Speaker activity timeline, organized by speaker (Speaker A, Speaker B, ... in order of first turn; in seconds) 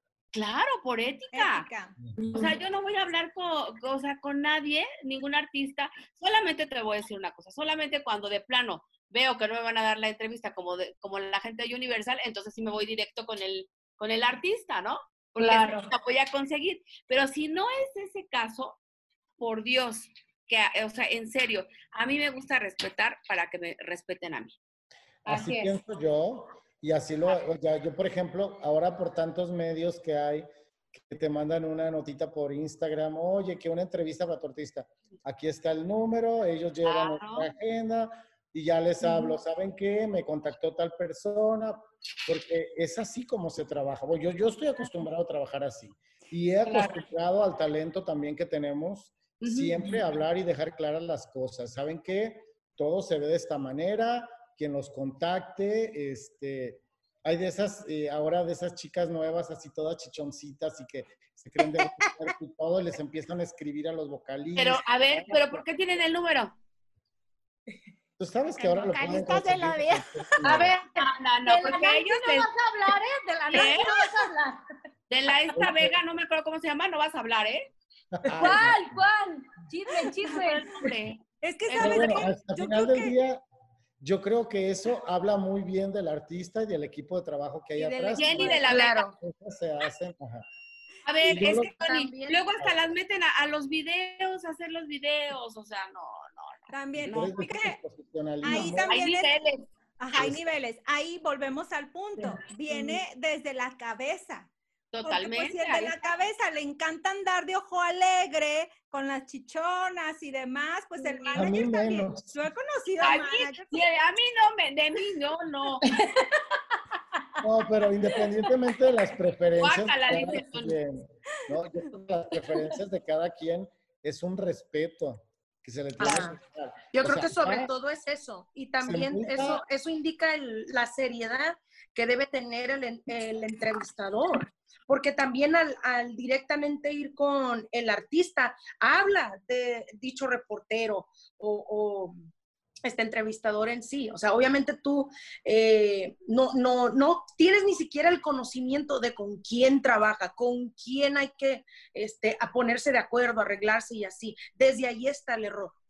Speaker A: 0.3-1.7, 2.3-18.8, 19.4-24.6, 36.8-37.5, 64.5-66.6, 71.0-72.5, 73.5-73.9, 75.1-77.7, 80.3-82.3, 88.1-89.1, 91.0-97.6, 98.9-99.6, 104.9-106.0, 113.0-115.8, 119.6-120.8
Speaker B: 1.3-1.9, 68.6-70.5, 73.5-74.3, 81.4-83.1, 87.8-88.7, 96.7-97.8, 98.4-99.3, 100.0-104.5, 105.0-113.8
Speaker C: 2.2-2.5, 15.4-15.9, 25.2-25.8, 39.0-39.3, 46.6-47.0, 70.4-74.6, 78.4-80.7, 115.8-116.4, 118.1-118.5
Speaker D: 25.2-66.0, 68.2-70.7, 75.5-75.9, 78.1-79.0, 81.8-83.4, 84.0-90.5, 91.2-91.8, 97.0-99.0, 100.1-100.4, 111.3-112.4, 117.4-127.7, 128.8-129.6
Speaker E: 49.4-49.8, 88.7-89.2, 91.5-92.5, 126.0-126.4, 126.9-142.2, 142.8-155.8